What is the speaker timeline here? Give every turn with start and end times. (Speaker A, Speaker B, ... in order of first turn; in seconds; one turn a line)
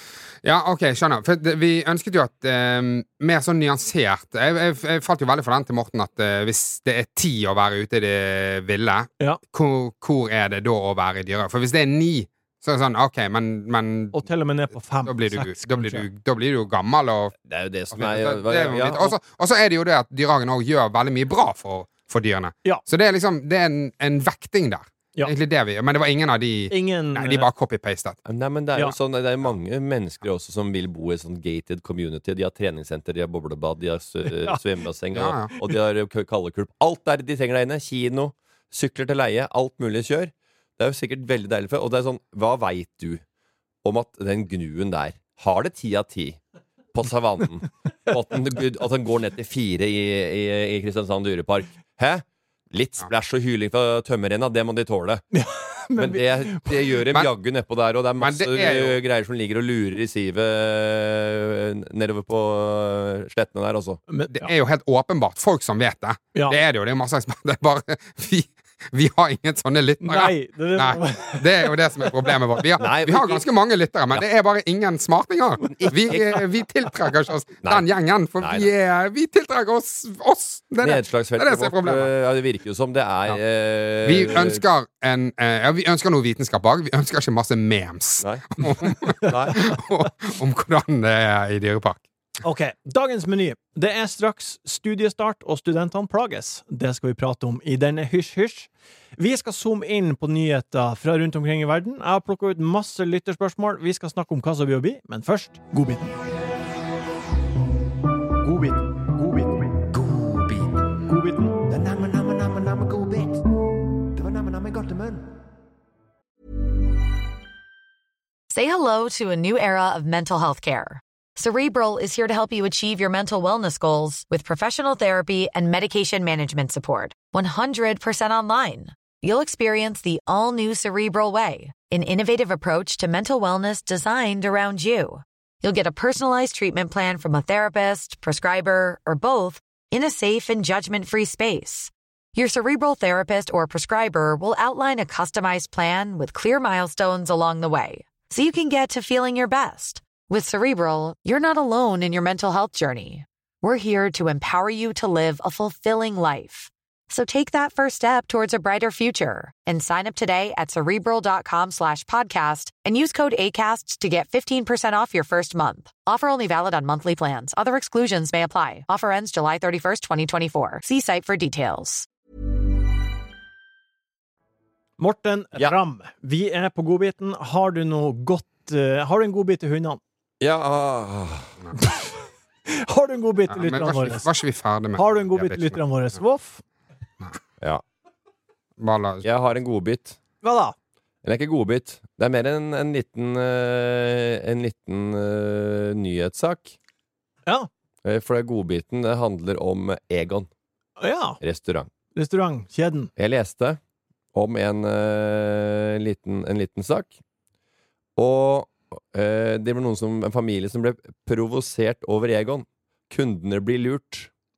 Speaker A: 0.4-14.2
Speaker B: 14.1-16.1
Speaker A: 15.0-17.3
Speaker C: 17.5-19.2
Speaker A: 17.9-28.2
Speaker B: 26.7-27.5
Speaker C: 28.2-43.2
Speaker B: 34.3-34.6
Speaker A: 35.1-35.5
Speaker C: 43.8-46.4
Speaker C: 46.9-55.2
Speaker B: 55.3-57.0
Speaker C: 55.9-64.0
Speaker A: 58.2-59.0
Speaker B: 64.1-64.5
Speaker A: 64.3-82.1
Speaker B: 70.0-72.3
Speaker C: 72.8-73.5
Speaker C: 75.7-76.4
Speaker C: 78.4-78.7
Speaker C: 80.8-84.6
Speaker A: 84.0-92.0
Speaker C: 88.2-89.6
Speaker B: 92.4-106.1
Speaker B: 108.4-109.7
Speaker C: 110.0-110.6
Speaker B: 111.0-111.6
Speaker C: 111.8-113.2
Speaker C: 114.2-115.1
Speaker D: 118.5-172.1
Speaker B: 175.0-180.0
Speaker C: 180.4-181.5
Speaker B: 181.8-182.1
Speaker B: 182.7-184.3
Speaker A: 183.5-185.8
Speaker B: 184.9-186.6
Speaker A: 188.8-189.2
Speaker C: 189.2-190.2
Speaker B: 190.4-190.8
Speaker C: 191.2-196.7
Speaker C: 198.0-200.5
Speaker B: 201.0-201.4
Speaker C: 201.4-201.9
Speaker B: 202.1-203.1
Speaker C: 203.2-203.8
Speaker C: 204.3-207.1
Speaker C: 208.2-214.3